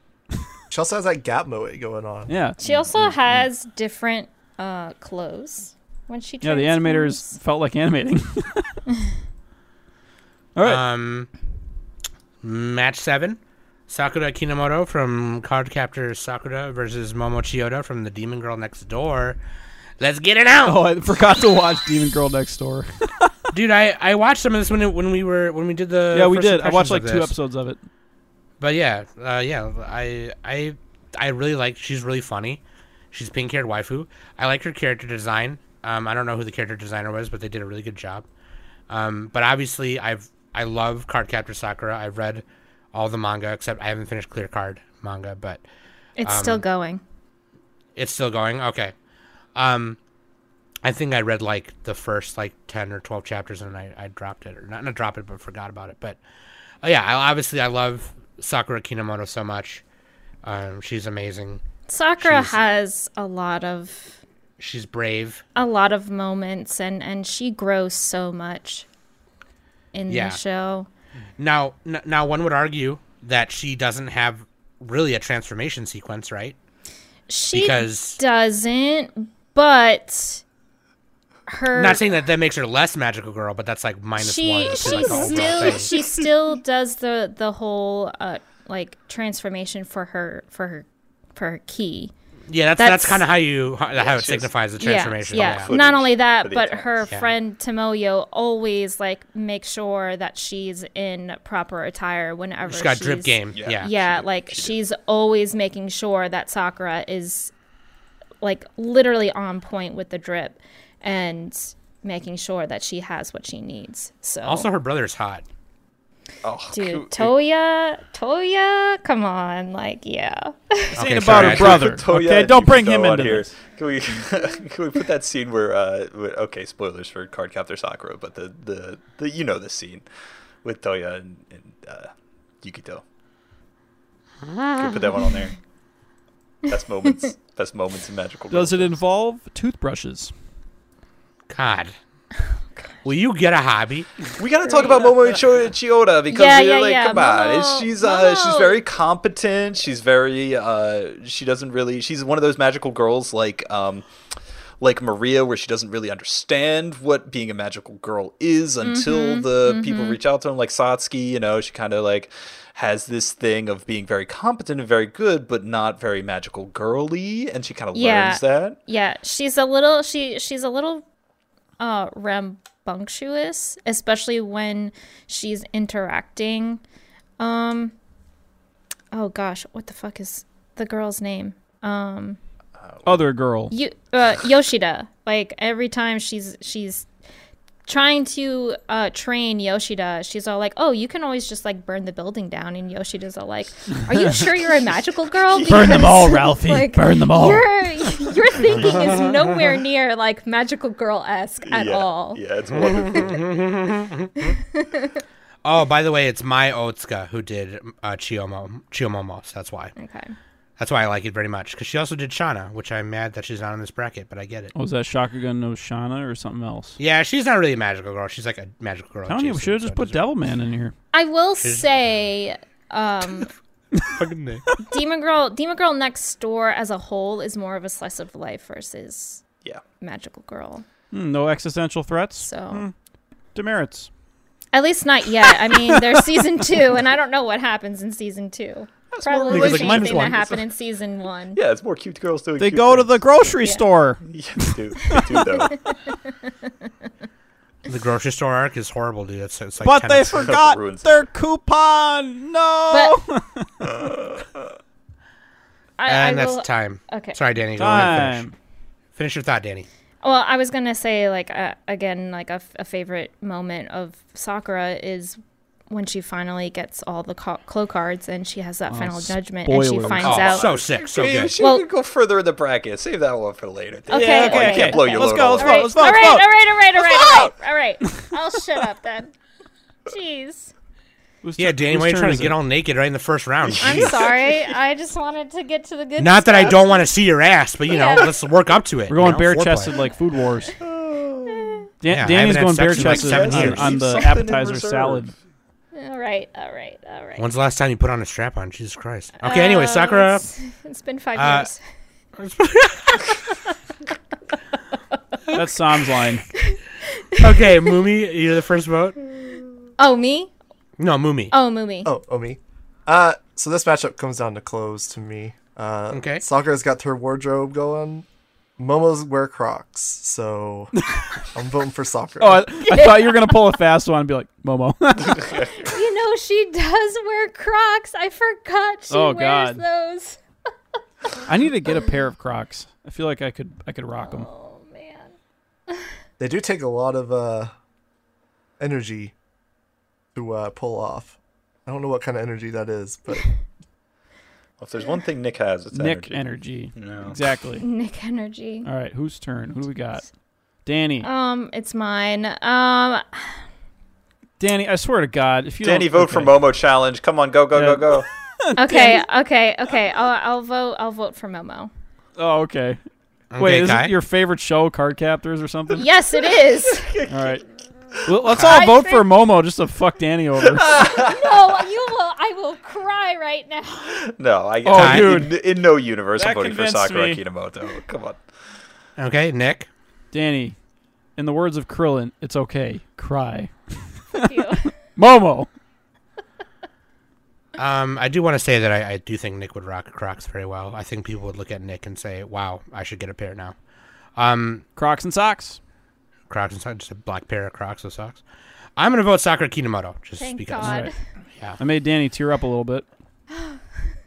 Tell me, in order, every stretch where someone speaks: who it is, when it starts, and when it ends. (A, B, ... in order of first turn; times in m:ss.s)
0:00.7-0:02.3 A
0:02.3-0:02.6 B
0:02.6-0:07.3 C
0:06.4-0:08.8 B
0:10.5-0:10.8 B
0:10.6-0:11.3 D
0:12.4-0:19.4 D
0:20.0-0:20.8 D
0:20.6-0:23.3 B
0:23.5-0:27.3 D
0:26.1-0:27.8 B
0:28.6-0:38.2 D
0:38.9-0:45.6 D
0:46.2-0:47.0 C
0:46.2-0:46.6 D
0:48.0-0:48.9 D
0:49.5-0:50.0 D
0:50.8-0:56.2 D
0:56.8-0:59.8 D
1:00.4-1:01.6 D
1:01.9-1:04.2 C
1:02.2-1:02.6 D
1:04.6-1:05.4 D
1:05.5-1:08.9 C
1:09.9-1:10.9 C
1:10.1-1:10.4 D
1:11.4-1:16.6 D
1:17.3-1:20.4 C
1:17.5-1:18.2 D
1:21.5-1:22.2 C
1:21.7-1:25.9 D
1:24.2-1:32.1 C
1:24.8-1:26.0 E
1:32.5-1:35.7 D
1:32.8-1:33.2 C
1:33.9-1:34.5 E
1:34.8-1:47.5 C
1:35.3-1:37.1 E
1:42.6-1:43.9 D
1:43.5-1:44.7 E
1:48.4-1:54.7 C
1:54.4-1:55.4 D
1:56.4-1:57.3 E
1:56.7-2:01.0 C
2:00.9-2:03.5 B
2:01.0-2:02.0 D
2:01.2-2:10.0 E
2:10.6-2:13.0 E
2:14.4-2:15.1 D
2:14.8-2:15.6 E
2:16.7-2:19.0 E
2:18.5-2:20.3 B
2:21.5-2:21.9 D
2:23.0-2:24.2 D
2:24.4-2:34.1 E
2:24.6-2:25.0 C
2:26.3-2:28.8 C
2:34.8-2:48.8 E
2:38.8-2:40.2 C
2:47.9-2:51.0 C
2:51.8-2:56.8 C
2:57.4-2:57.9 C
2:59.1-3:02.4 C
3:02.8-3:03.3 E
3:03.0-3:03.7 B
3:03.7-3:07.1 C
3:07.8-3:23.2 C
3:15.5-3:16.2 E
3:15.7-3:17.7 B
3:18.8-3:19.1 E
3:18.9-3:19.4 D
3:21.6-3:23.5 E
3:22.7-3:24.6 D
3:24.4-3:25.2 C
3:25.6-3:29.9 D
3:30.0-3:30.3 C
3:30.8-3:34.7 D
3:34.7-3:37.0 B
3:37.0-3:40.2 D
3:39.3-3:40.9 B
3:41.1-3:43.5 C
3:41.6-3:41.9 D
3:43.9-3:44.8 B
3:44.1-3:44.6 D
3:44.9-3:49.4 C
3:50.0-3:50.8 C
3:51.1-3:52.9 B
3:52.4-3:52.8 C
3:53.5-3:54.1 B
3:54.7-4:01.6 C
3:55.5-3:56.4 B
3:59.1-4:00.6 E
3:59.5-4:00.4 D
4:01.5-4:03.5 E
4:02.6-4:05.7 B
4:04.2-4:05.9 E
4:05.1-4:06.9 C
4:07.8-4:10.5 D
4:09.8-4:13.9 B
4:10.3-4:11.1 E
4:12.9-4:13.2 C
4:13.8-4:14.6 E
4:16.0-4:17.4 C
4:16.1-4:18.4 D
4:17.8-4:18.5 B
4:19.2-4:19.9 D
4:20.2-4:25.4 C
4:25.9-4:30.7 C
4:28.9-4:30.6 B
4:30.0-4:36.2 E
4:30.2-4:31.5 D
4:31.3-4:31.9 C
4:34.1-4:36.5 B
4:34.1-4:39.3 C
4:37.1-4:37.4 B
4:40.1-4:40.7 C
4:41.4-4:42.6 B
4:41.6-4:44.2 D
4:43.6-4:44.7 E
4:43.8-4:47.0 C
4:46.2-4:49.9 D
4:47.9-4:48.3 C
4:49.1-4:50.8 B
4:50.8-4:51.8 E
4:52.0-4:55.3 B
4:52.1-4:54.0 D
4:52.8-4:55.3 E
4:55.9-4:57.4 C
4:57.4-5:00.4 D
4:59.4-5:01.8 C
5:01.4-5:01.7 D
5:02.4-5:03.4 D
5:05.5-5:06.5 B
5:06.5-5:07.8 C
5:07.4-5:09.3 D
5:10.0-5:10.5 C
5:11.0-5:11.5 D
5:11.5-5:12.1 C
5:12.0-5:18.2 A
5:16.1-5:16.4 D
5:18.8-5:20.9 A
5:21.0-5:21.4 B
5:21.5-5:22.8 A
5:22.4-5:25.5 B
5:23.0-5:23.3 C
5:25.3-5:25.9 E
5:25.7-5:30.4 C
5:29.1-5:29.8 B
5:31.4-5:34.5 B
5:34.2-5:35.3 C
5:36.4-5:37.7 A
5:38.8-5:39.3 A
5:40.3-5:43.4 A
5:44.8-5:46.4 E
5:45.9-5:47.8 B
5:46.9-5:47.5 E
5:47.8-5:48.9 C
5:48.8-5:50.2 B
5:50.8-5:51.3 B
5:51.2-5:53.6 C
5:54.6-5:56.6 B
5:55.8-5:58.3 E
5:57.7-5:59.2 B
5:58.8-6:01.9 C
6:02.4-6:03.0 B
6:03.5-6:04.1 D
6:03.6-6:06.1 B
6:05.9-6:07.2 C
6:06.9-6:07.6 E
6:07.3-6:07.6 B
6:08.2-6:10.9 B
6:08.5-6:08.8 D
6:08.6-6:09.3 C
6:10.7-6:11.6 E
6:10.9-6:14.2 C
6:14.1-6:18.4 E
6:14.8-6:15.6 B
6:14.9-6:15.3 D
6:16.3-6:17.4 B
6:19.2-6:19.9 D
6:20.3-6:20.7 B
6:21.4-6:24.5 B
6:24.4-6:24.9 C
6:25.2-6:25.7 B
6:27.8-6:33.7 D
6:34.4-6:34.8 D
6:35.0-6:35.8 B
6:36.5-6:38.4 D
6:39.0-6:41.0 D
6:40.4-6:41.1 C
6:40.8-6:41.1 B
6:41.8-6:43.0 B
6:43.5-6:43.8 C